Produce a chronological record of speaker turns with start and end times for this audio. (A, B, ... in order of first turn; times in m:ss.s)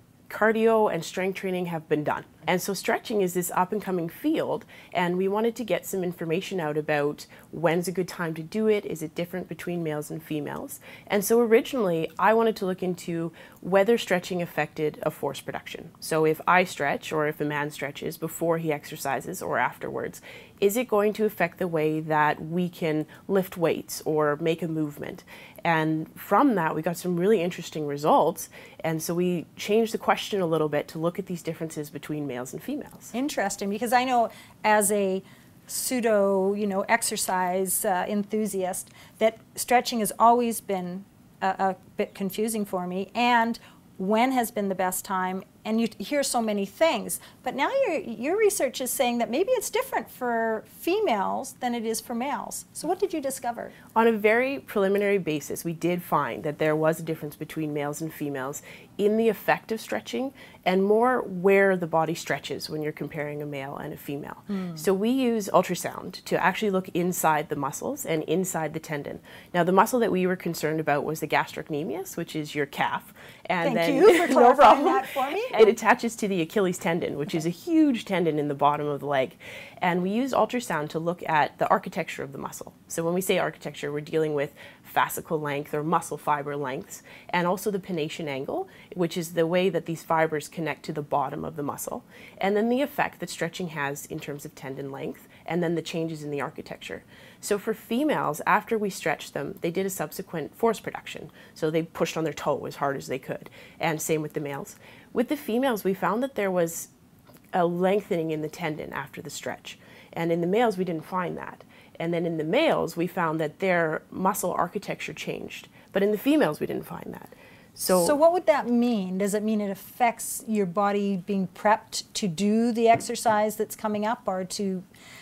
0:00.3-0:33.1 A
0:33.1-0:53.7 B
0:53.9-1:46.9 A
1:04.5-1:04.8 B
1:13.6-1:15.7 B
1:47.5-1:58.2 A
1:57.9-2:04.8 B